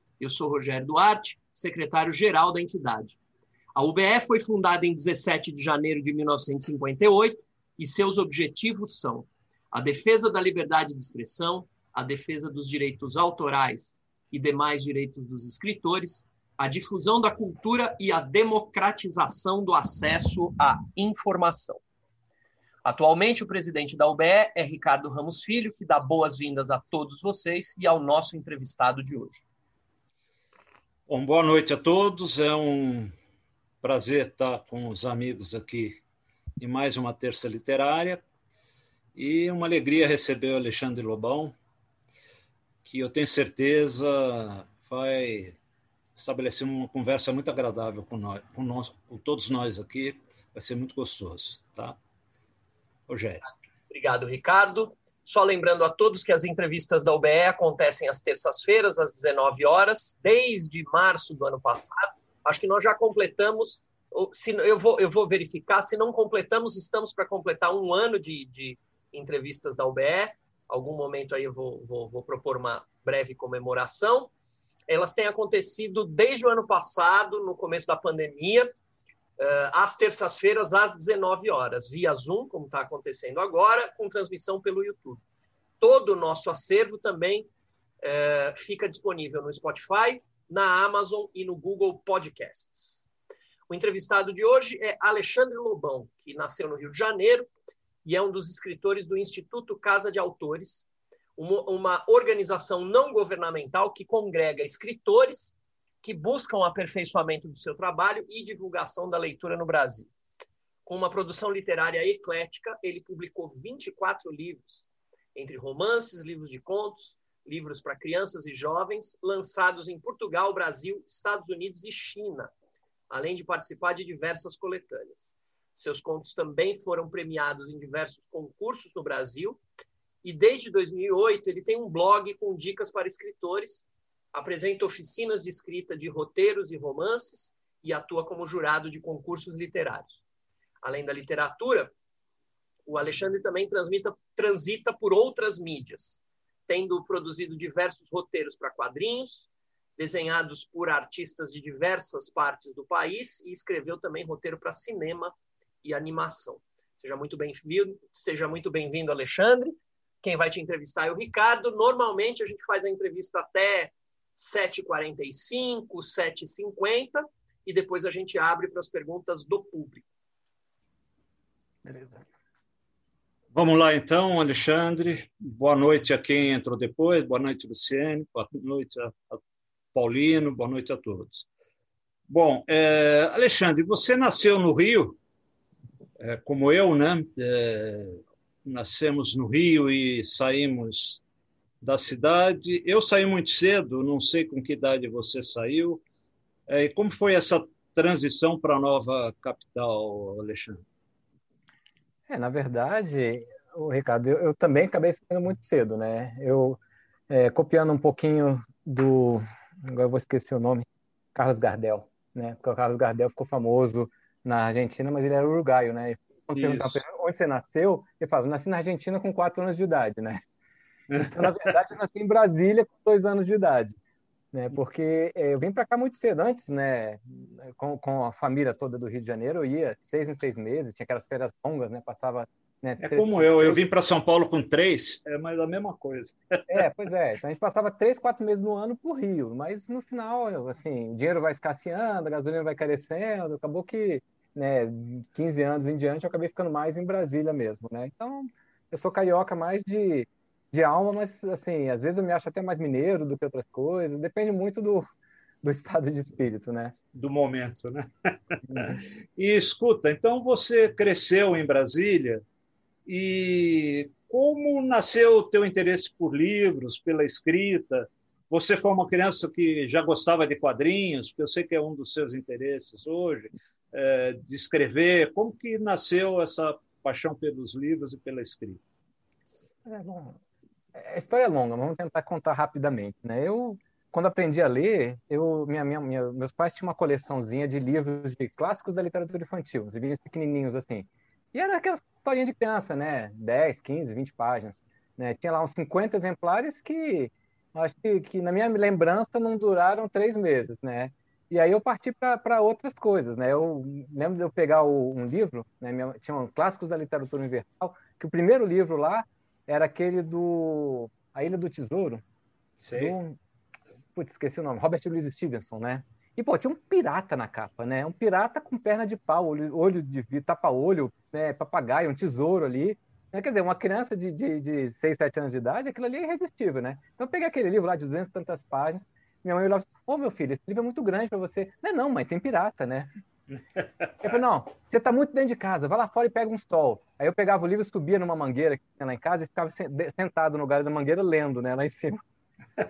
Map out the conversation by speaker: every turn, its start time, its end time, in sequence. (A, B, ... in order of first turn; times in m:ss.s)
0:00.2-0:03.2 A
0:03.7-0:21.8 A
0:22.8-0:29.4 A
0:31.1-0:33.1 B
0:33.8-0:36.0 B
0:36.6-0:38.2 B
0:39.1-0:41.5 B
0:42.8-0:45.6 B
0:46.1-0:52.0 B
0:53.1-0:53.4 B
0:53.9-1:14.3 A
1:14.9-1:18.7 A
1:19.4-1:25.2 A
1:25.8-1:27.5 A
1:28.0-1:33.0 A
1:33.7-1:37.5 A
1:38.0-1:50.1 A
1:50.8-2:02.5 A
2:03.1-2:09.6 A
2:10.2-2:20.2 A
2:20.8-2:21.9 A
2:22.8-2:50.1 A
2:51.8-2:52.2 C
2:53.5-2:59.4 B
2:59.9-3:01.4 B
3:02.3-3:05.2 B
3:06.2-3:11.2 B
3:11.8-3:16.0 B
3:16.7-3:20.8 B
3:22.3-3:40.4 C
3:36.5-3:37.0 B
3:41.1-3:41.5 B
3:41.2-3:44.0 C
3:44.5-3:53.8 C
3:53.0-3:56.6 B
3:56.7-4:15.1 C
4:15.6-4:17.0 C
4:17.1-4:22.4 B
4:18.7-4:19.0 C
4:23.1-4:38.8 B
4:39.8-4:40.4 C
4:40.9-5:12.2 C
5:12.8-5:13.1 B
5:12.9-5:13.4 C
5:14.1-5:33.1 C
5:34.2-5:42.2 C